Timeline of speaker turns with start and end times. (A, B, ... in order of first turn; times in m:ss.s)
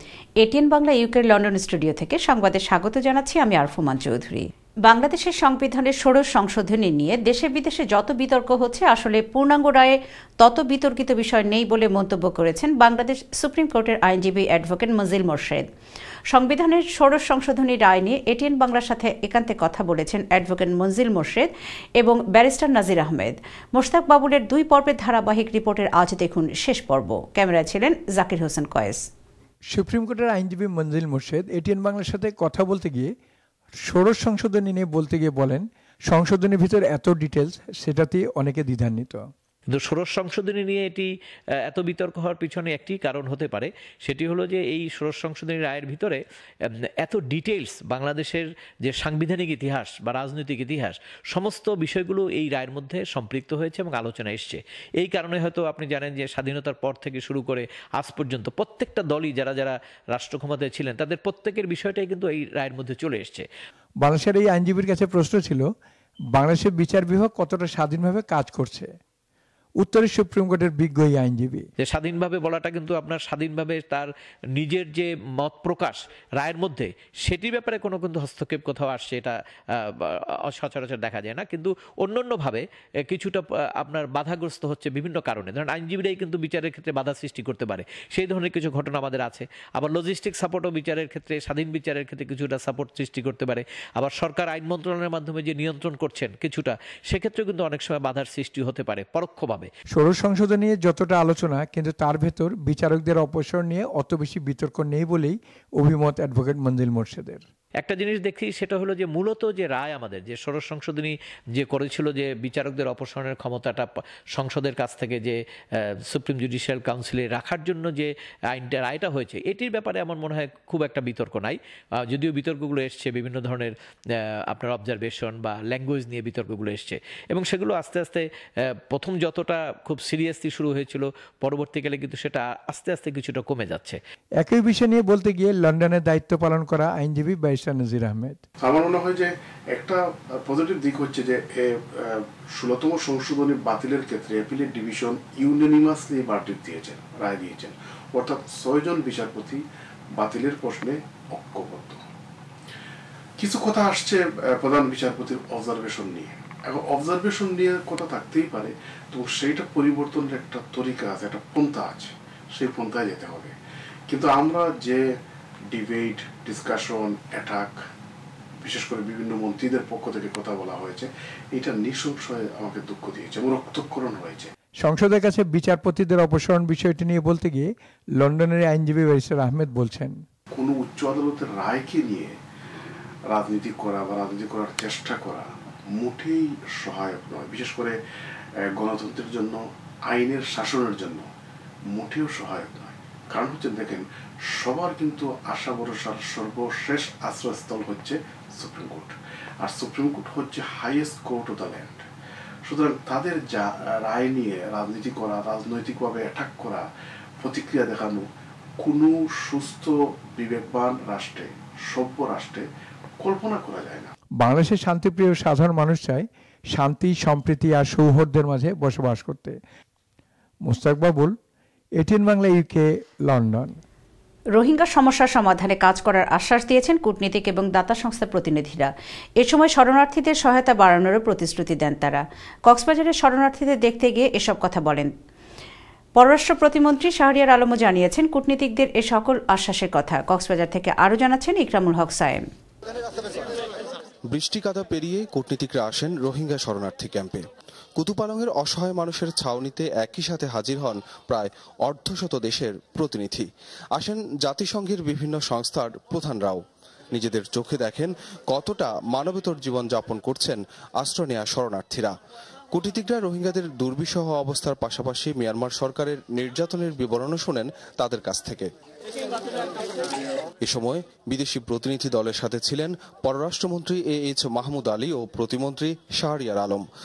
0:00.4-0:15.6 A
0:16.3-0:29.0 A
0:29.7-0:33.1 B
0:33.9-0:39.2 B
0:39.7-0:41.1 C
0:41.6-1:03.5 C
1:04.0-1:05.6 B
1:06.3-1:08.9 B
1:09.8-1:11.7 B
1:11.8-1:39.7 C
1:40.0-1:47.4 B
1:47.8-2:14.0 C
2:14.4-2:18.4 B
2:18.6-2:29.6 D
2:30.2-2:32.0 D
2:33.4-2:43.5 D
2:44.1-2:45.0 D
2:45.7-2:47.7 D
2:48.6-2:54.5 D
2:54.8-2:57.7 B
2:58.2-3:00.2 B
3:00.5-3:02.3 D
3:03.3-3:08.0 D
3:08.7-3:11.2 D
3:11.9-3:14.0 D
3:14.6-3:22.0 D
3:22.7-3:26.8 D
3:27.4-3:28.2 D
3:28.8-3:32.6 D
3:33.2-3:34.1 D
3:34.4-3:39.5 B
3:40.7-3:41.3 B
3:42.0-3:43.7 B
3:44.6-3:55.1 A
3:56.2-4:02.4 A
4:04.3-4:07.4 E
4:08.0-4:16.6 E
4:17.1-4:22.1 E
4:22.7-4:28.7 E
4:30.6-4:36.8 E